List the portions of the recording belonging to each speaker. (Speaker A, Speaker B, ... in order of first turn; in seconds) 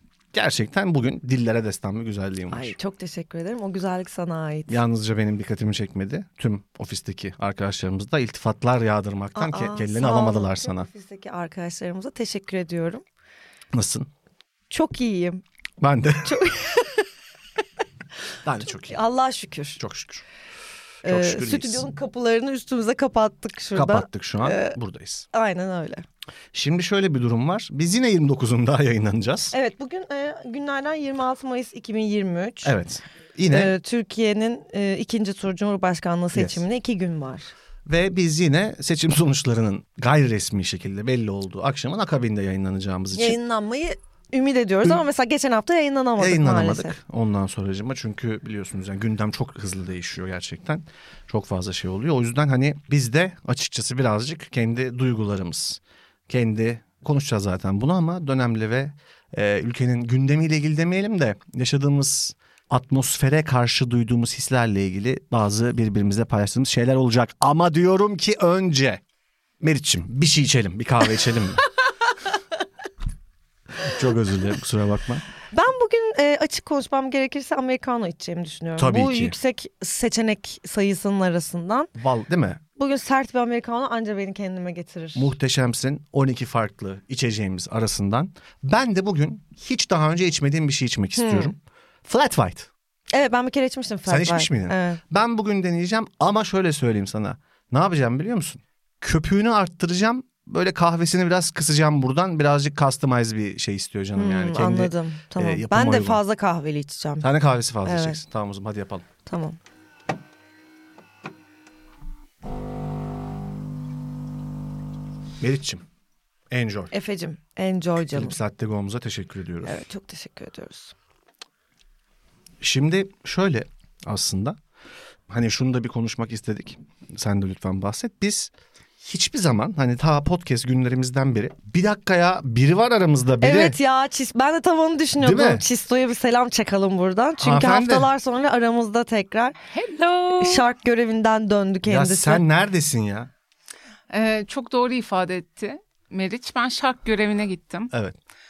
Speaker A: 0.3-2.7, 4.7-10.9, 13.7-14.1, 15.8-16.4, 18.4-19.0, 19.8-20.2, 21.0-21.9, 23.7-25.2, 26.5-29.5, 32.6-33.7, 36.3-36.6, 37.9-43.4, 46.2-69.0, 69.6-71.6, 73.8-75.2, 78.8-79.3, 82.0-82.6, 85.1-92.7, 94.1-106.2, 107.2-109.0, 115.4-115.8, 116.5-116.9, 118.1-119.8, 122.6-124.6, 125.3-133.8, 135.2-135.7, 137.4-138.1, 141.8-143.3, 147.9-148.2
Speaker B: 2.5-4.8, 9.3-13.0, 14.7-15.4, 16.2-17.1, 18.6-19.8, 21.0-24.8, 25.3-26.0, 29.5-32.7, 33.5-37.5, 43.1-47.0, 75.5-81.9, 82.8-85.3, 91.2-91.5, 93.1-95.0, 104.1-107.2, 107.8-108.2, 109.2-109.6, 116.9-118.3, 119.6-120.9, 133.4-139.6, 140.3-142.4
Speaker C: 139.7-140.6, 144.1-147.9